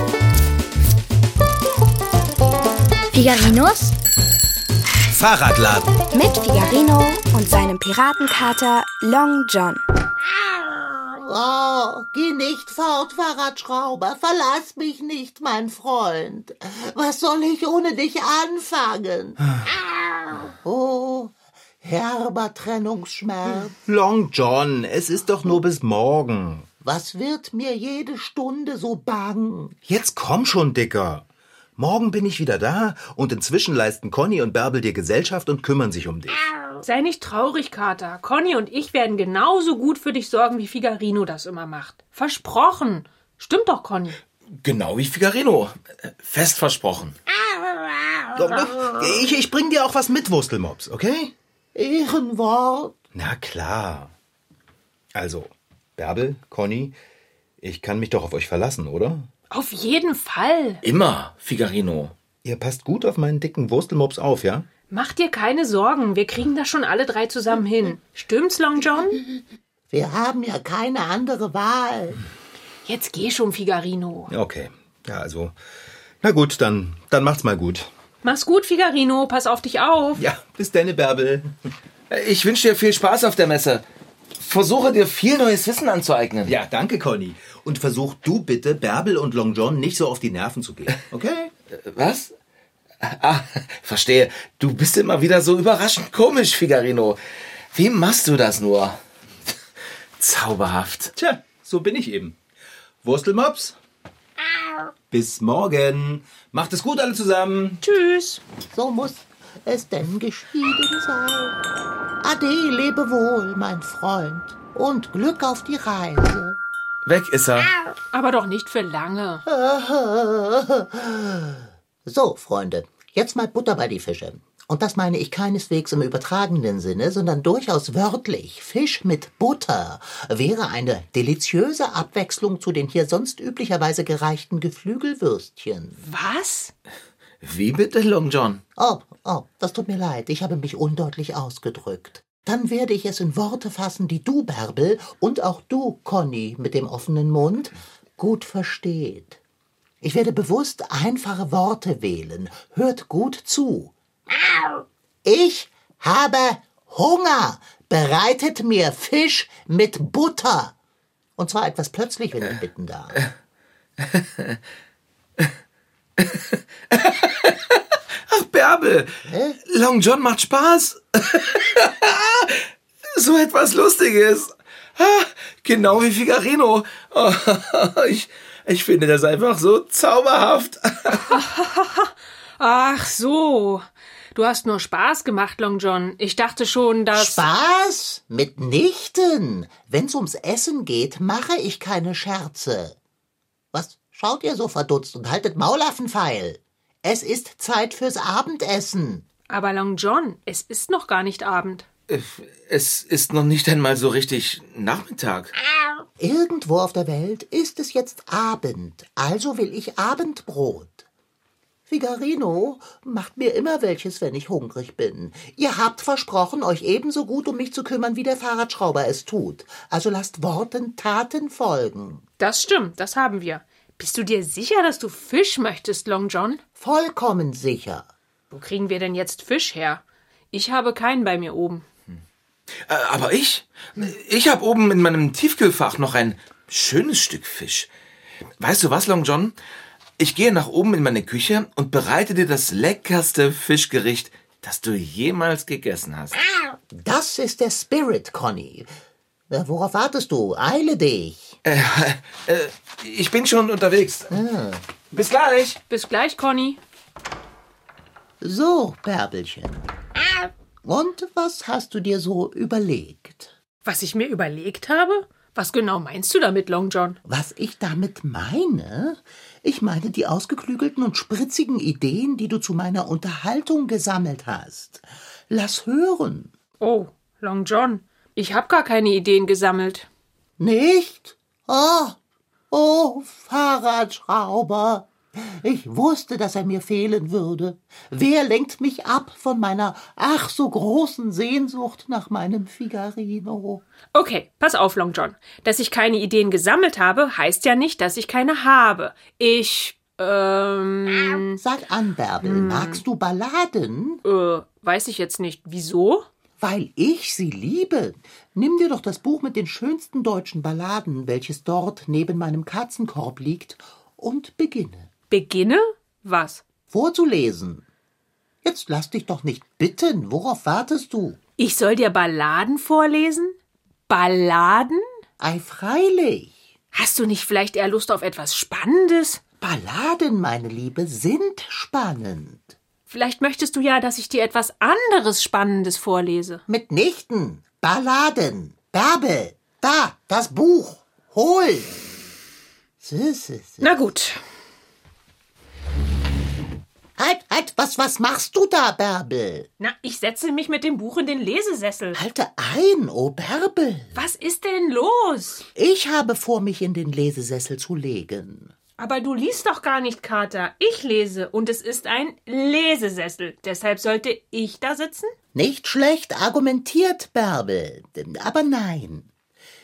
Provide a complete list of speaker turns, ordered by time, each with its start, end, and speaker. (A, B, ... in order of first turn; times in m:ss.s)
0:03.1-0:03.9 A
0:05.1-0:06.0 B
0:06.1-0:09.8 A
0:10.6-0:23.8 C
0:23.5-0:26.7 B
0:26.8-0:29.8 C
0:29.9-0:31.3 B
0:31.8-0:36.4 B
0:36.8-0:44.2 D
0:44.6-0:47.2 E
0:48.1-0:48.4 C
0:48.4-0:51.3 B
0:51.8-0:53.0 C
0:53.2-0:54.1 B
0:55.2-0:57.0 B
0:57.6-0:59.3 B
0:59.5-1:00.8 D
1:00.8-1:02.1 E
1:02.4-1:04.7 B
1:04.9-1:09.2 D
1:09.9-1:12.2 C
1:12.8-1:14.3 D
1:14.3-1:15.5 B
1:16.2-1:17.9 B
1:18.2-1:20.2 D
1:20.2-1:21.5 B
1:22.1-1:23.8 E
1:24.4-1:26.6 E
1:26.5-1:31.5 B
1:31.7-1:32.3 E
1:33.0-1:37.2 E
1:37.7-1:39.0 E
1:40.2-1:41.1 E
1:41.2-1:42.4 B
1:43.0-1:43.8 B
1:45.1-1:47.8 B
1:47.8-1:48.4 D
1:48.7-1:51.6 C
1:52.2-1:56.6 C
1:57.1-1:57.7 E
1:58.1-1:59.4 D
1:59.5-2:16.0 C
2:16.0-2:16.7 D
2:17.4-2:18.6 E
2:18.8-2:29.4 C
2:30.0-2:33.9 C
2:35.2-2:40.8 C
2:41.4-2:43.2 C
2:44.0-2:44.6 E
2:46.2-2:49.1 E
2:49.2-2:49.6 C
2:49.7-3:01.4 E
3:01.3-3:03.8 D
3:04.4-3:07.5 D
3:07.1-3:13.0 C
3:13.7-3:19.2 C
3:19.5-3:21.9 D
3:22.1-3:25.5 E
3:26.2-3:31.1 C
3:31.9-3:42.2 C
3:42.4-3:46.6 D
3:46.8-3:48.1 C
3:48.5-3:51.8 D
3:52.8-3:57.9 E
3:58.6-3:59.6 E
4:00.2-4:06.4 E
4:06.9-4:08.9 C
4:09.5-4:11.6 C
4:11.6-4:14.4 E
4:14.3-4:14.8 C
4:15.1-4:15.8 E
4:15.9-4:16.8 D
4:18.4-4:19.9 C
4:20.8-4:23.5 C
4:23.8-4:27.2 D
4:27.2-4:36.5 C
4:36.8-4:40.1 D
4:40.6-4:42.2 C
4:42.7-4:53.8 C
4:54.1-5:01.6 D
5:01.6-5:04.2 C
5:02.4-5:03.0 D
5:04.2-5:06.3 D
5:06.6-5:15.1 C
5:15.3-5:16.6 D
5:16.9-5:17.9 C
5:18.6-5:21.4 C
5:21.6-5:23.6 D
5:24.1-5:25.0 D
5:25.4-5:26.6 C
5:26.9-5:29.4 D
5:29.6-5:32.8 C
5:33.1-5:36.6 D
5:36.7-5:42.0 C
5:43.0-5:43.9 C
5:43.8-5:44.4 D
5:47.2-5:49.7 C
5:49.8-5:52.2 D
5:52.1-5:54.2 C
5:54.2-5:55.7 D
5:55.8-5:58.7 C
5:59.0-6:05.3 D
6:05.5-6:09.3 C